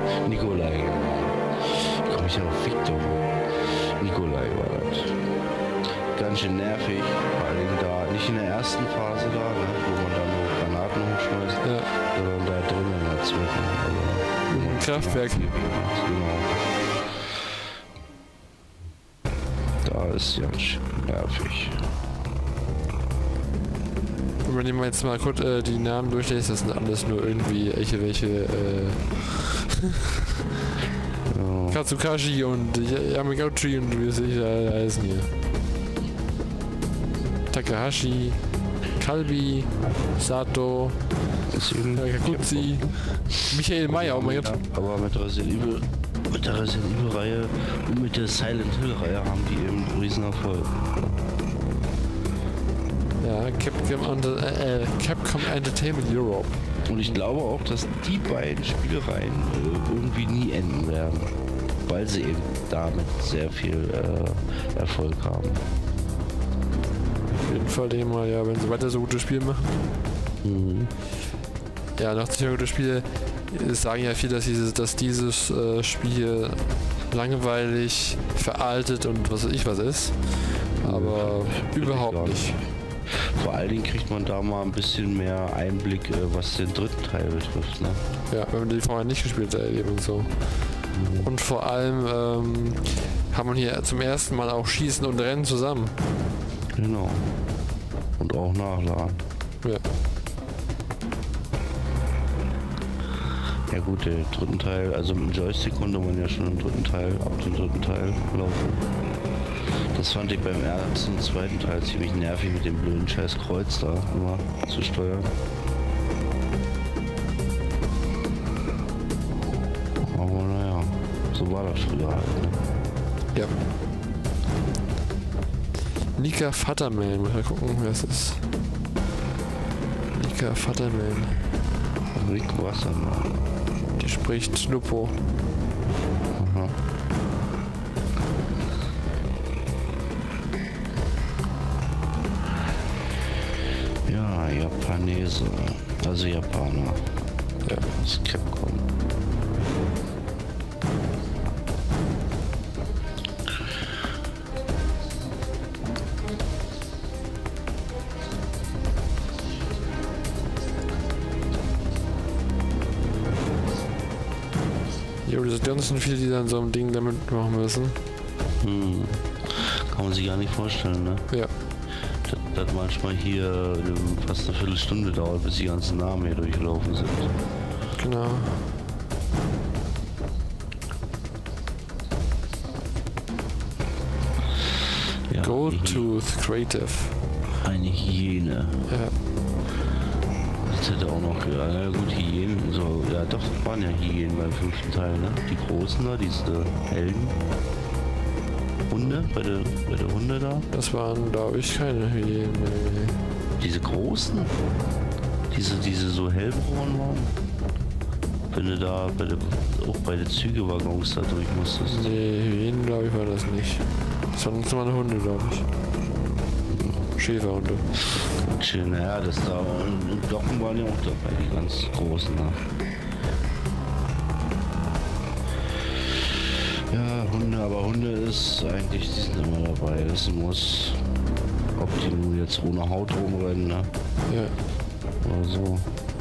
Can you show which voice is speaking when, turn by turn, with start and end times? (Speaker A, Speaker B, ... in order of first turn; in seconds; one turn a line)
Speaker A: 0.2-5.3
Speaker A: 6.1-17.4
Speaker B: 11.6-11.9
Speaker B: 14.5-15.5
Speaker A: 19.8-21.8
Speaker B: 24.4-29.8
Speaker A: 31.3-31.8
Speaker B: 31.7-35.3
Speaker B: 37.5-41.4
Speaker A: 41.5-50.9
Speaker B: 42.0-44.5
Speaker B: 53.2-57.2
Speaker A: 56.9-65.6
Speaker B: 67.3-69.8
Speaker A: 70.4-70.9
Speaker B: 72.0-82.6
Speaker A: 80.8-88.0
Speaker B: 88.3-95.9
Speaker A: 90.9-91.3
Speaker A: 96.7-97.5
Speaker A: 98.2-99.3
Speaker A: 103.7-109.0
Speaker A: 109.9-115.3
Speaker A: 120.0-122.6
Speaker B: 126.2-128.4
Speaker B: 130.1-131.5
Speaker A: 132.1-133.4
Speaker B: 134.0-135.2
Speaker A: 136.3-136.8
Speaker A: 144.1-148.8
Speaker B: 165.2-168.0
Speaker A: 168.6-171.7
Speaker A: 172.2-177.3
Speaker B: 178.0-178.7
Speaker A: 185.3-186.1
Speaker B: 185.4-187.2
Speaker A: 187.6-189.0
Speaker B: 188.9-189.2
Speaker A: 190.6-197.4
Speaker A: 198.9-200.7
Speaker B: 199.0-199.2
Speaker B: 200.7-203.2
Speaker A: 203.6-204.6
Speaker A: 205.5-207.4
Speaker A: 208.5-212.1
Speaker B: 211.9-215.7
Speaker A: 216.7-217.1
Speaker B: 217.2-217.9
Speaker A: 218.4-222.6
Speaker A: 226.9-231.1
Speaker A: 231.8-233.9
Speaker B: 234.3-234.6
Speaker A: 235.2-235.9